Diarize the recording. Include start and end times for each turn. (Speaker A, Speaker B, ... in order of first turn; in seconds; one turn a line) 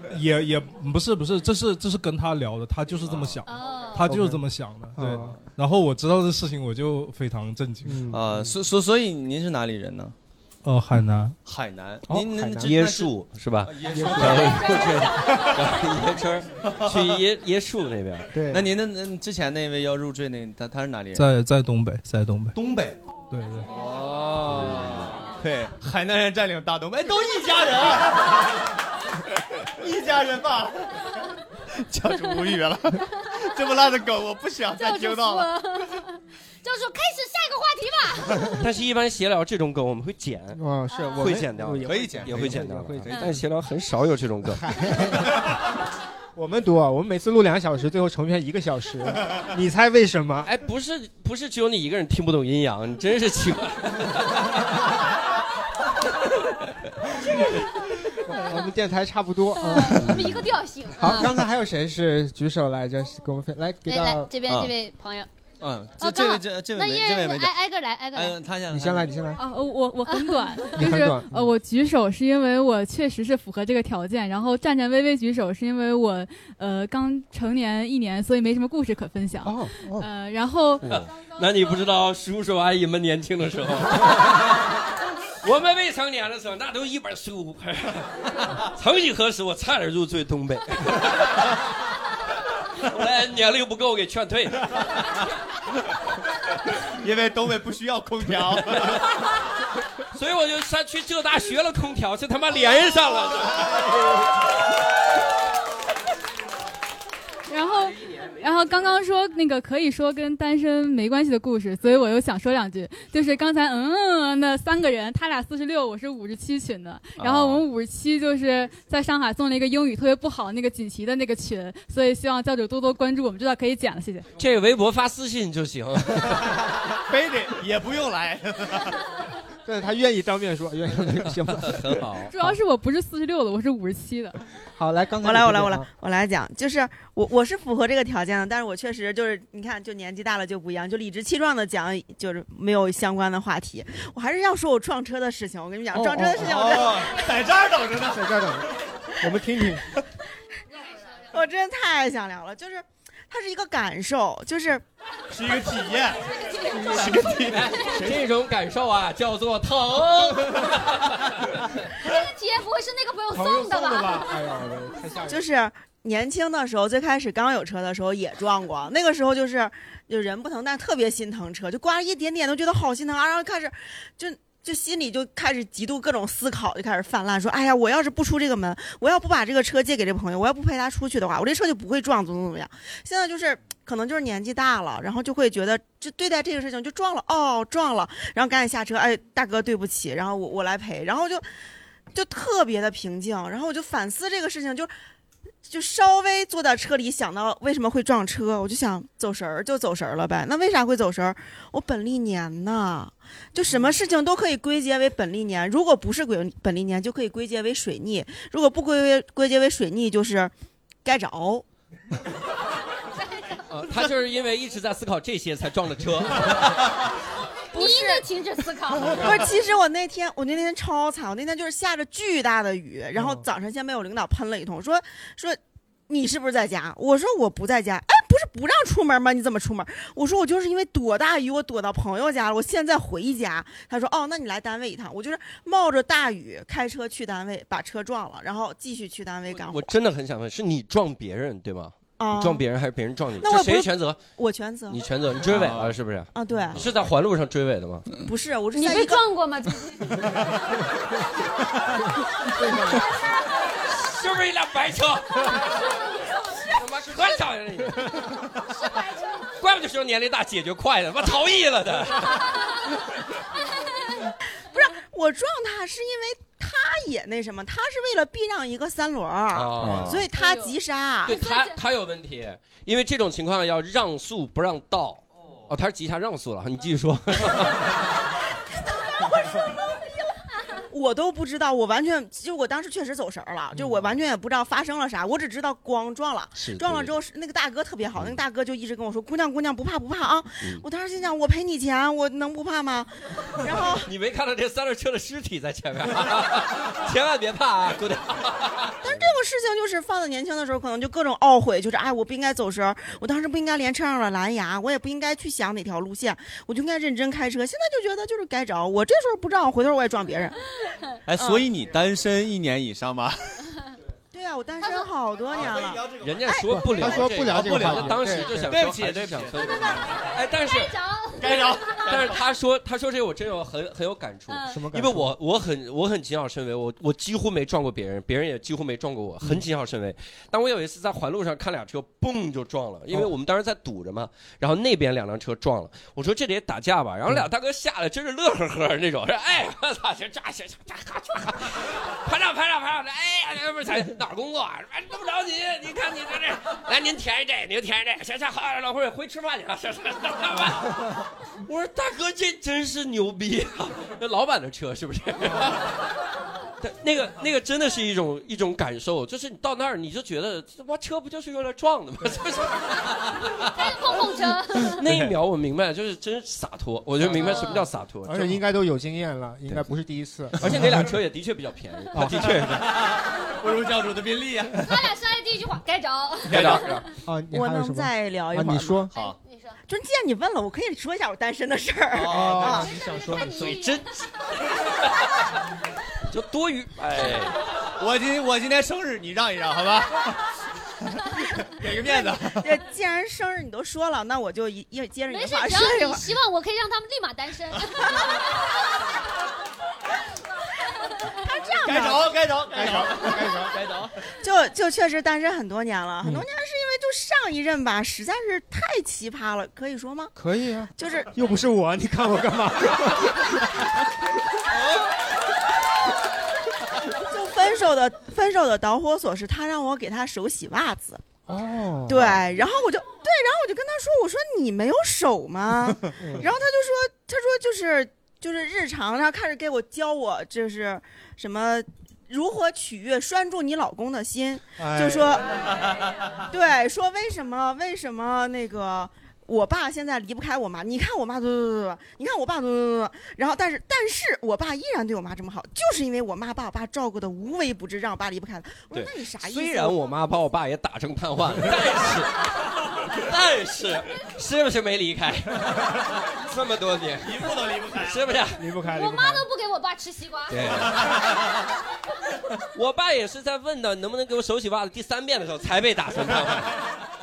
Speaker A: 0.1-8.0
Speaker B: 3.0-3.4
Speaker C: 3.5-4.1
Speaker D: 4.0-5.3
Speaker B: 5.1-5.4
Speaker D: 7.8-8.5
Speaker B: 8.1-10.1
Speaker A: 10.6-11.4
Speaker B: 11.4-13.1
Speaker D: 12.1-12.8
Speaker E: 12.6-18.3
Speaker B: 13.6-14.8
Speaker D: 13.9-14.5
Speaker B: 16.7-17.2
Speaker D: 18.3-18.7
Speaker B: 18.5-21.2
Speaker A: 21.1-22.6
Speaker B: 22.5-23.0
Speaker A: 23.3-23.7
Speaker B: 23.7-28.4
Speaker B: 29.8-30.7
Speaker B: 31.9-35.5
Speaker C: 34.7-38.6
Speaker E: 38.6-40.6
Speaker D: 40.5-43.1
Speaker E: 41.2-44.6
Speaker B: 41.8-43.2
Speaker D: 44.5-45.4
Speaker D: 46.3-50.5
Speaker E: 50.4-54.3
Speaker D: 58.2-60.4
Speaker C: 59.6-61.3
Speaker D: 61.0-64.3
Speaker C: 63.9-65.3
Speaker B: 64.5-64.7
Speaker B: 65.6-67.5
Speaker C: 66.0-68.4
Speaker B: 68.1-69.1
Speaker D: 68.7-69.4
Speaker F: 69.3-80.8
Speaker C: 70.1-70.4
Speaker D: 70.7-71.5
Speaker D: 79.4-80.1
Speaker E: 80.8-84.6
Speaker E: 85.4-91.5
Speaker E: 92.8-94.7
Speaker B: 97.0-98.8
Speaker E: 100.1-103.9
Speaker F: 107.5-124.3
Speaker E: 117.2-117.6
Speaker E: 124.4-126.5
Speaker B: 127.1-128.9
Speaker D: 129.6-131.8
Speaker E: 131.6-132.3
Speaker F: 132.3-134.3
Speaker D: 134.8-135.9
Speaker G: 135.2-147.2
Speaker B: 146.0-148.2
Speaker D: 148.1-148.7
Speaker D: 149.2-149.9
Speaker G: 151.3-154.8
Speaker B: 155.3-156.2
Speaker C: 156.3-157.1
Speaker B: 156.8-157.6
Speaker E: 157.5-161.1
Speaker C: 162.0-164.3
Speaker D: 163.3-165.4
Speaker G: 165.3-191.4
Speaker G: 192.1-194.9
Speaker G: 195.6-210.5
Speaker G: 211.0-211.6
Speaker E: 213.7-216.7
Speaker C: 217.7-219.3
Speaker G: 217.7-218.2
Speaker G: 219.2-239.9
Speaker D: 223.2-223.4
Speaker E: 239.5-244.2
Speaker G: 242.2-242.6
Speaker G: 243.4-245.0
Speaker E: 244.9-248.1
Speaker B: 245.5-245.9
Speaker G: 246.3-246.8
Speaker G: 248.2-249.2
Speaker C: 248.7-250.1
Speaker D: 252.6-253.0
Speaker E: 253.9-255.7
Speaker E: 256.6-258.2
Speaker E: 259.6-262.4
Speaker G: 264.7-271.4
Speaker E: 269.5-270.2
Speaker B: 269.8-270.2
Speaker C: 270.3-270.7
Speaker E: 271.2-278.0
Speaker C: 271.3-271.7
Speaker G: 279.2-279.6
Speaker G: 280.9-294.1
Speaker E: 286.6-287.1
Speaker E: 294.0-299.3
Speaker G: 299.0-310.6
Speaker B: 311.3-313.4
Speaker G: 311.4-311.6
Speaker G: 314.3-316.6
Speaker B: 315.5-316.3
Speaker E: 316.2-320.9
Speaker D: 316.7-318.8
Speaker B: 317.0-320.1
Speaker C: 319.9-322.1
Speaker B: 321.4-322.4
Speaker E: 322.0-355.9
Speaker C: 324.5-324.8
Speaker D: 324.7-325.3
Speaker E: 356.8-363.3
Speaker C: 363.7-364.9
Speaker E: 365.0-368.6
Speaker B: 367.3-367.6
Speaker C: 367.4-367.8
Speaker D: 368.2-370.9
Speaker E: 370.6-372.9
Speaker D: 372.1-372.5
Speaker B: 372.6-375.0
Speaker C: 374.7-376.7
Speaker B: 376.5-377.0
Speaker E: 376.5-376.9
Speaker D: 377.2-379.1
Speaker G: 377.5-379.1
Speaker B: 379.1-379.4
Speaker C: 379.1-379.8
Speaker G: 379.9-382.9
Speaker B: 382.1-382.8
Speaker D: 382.3-383.6
Speaker C: 383.1-384.0
Speaker E: 383.4-384.3
Speaker E: 386.3-387.6
Speaker B: 388.0-390.3
Speaker B: 391.6-392.7
Speaker G: 392.0-396.2
Speaker C: 395.3-398.6
Speaker G: 401.4-402.4
Speaker B: 401.8-404.1
Speaker D: 402.7-403.8
Speaker G: 404.4-410.3
Speaker D: 410.4-413.8
Speaker G: 411.0-411.3
Speaker G: 417.2-421.2
Speaker D: 421.5-422.4
Speaker G: 422.1-435.4
Speaker D: 426.2-426.5
Speaker D: 434.8-435.2
Speaker G: 436.5-450.0
Speaker E: 448.9-452.3
Speaker E: 453.1-458.6
Speaker B: 457.2-458.4
Speaker D: 458.6-459.4
Speaker C: 458.9-460.7
Speaker E: 460.5-461.1
Speaker E: 462.7-466.8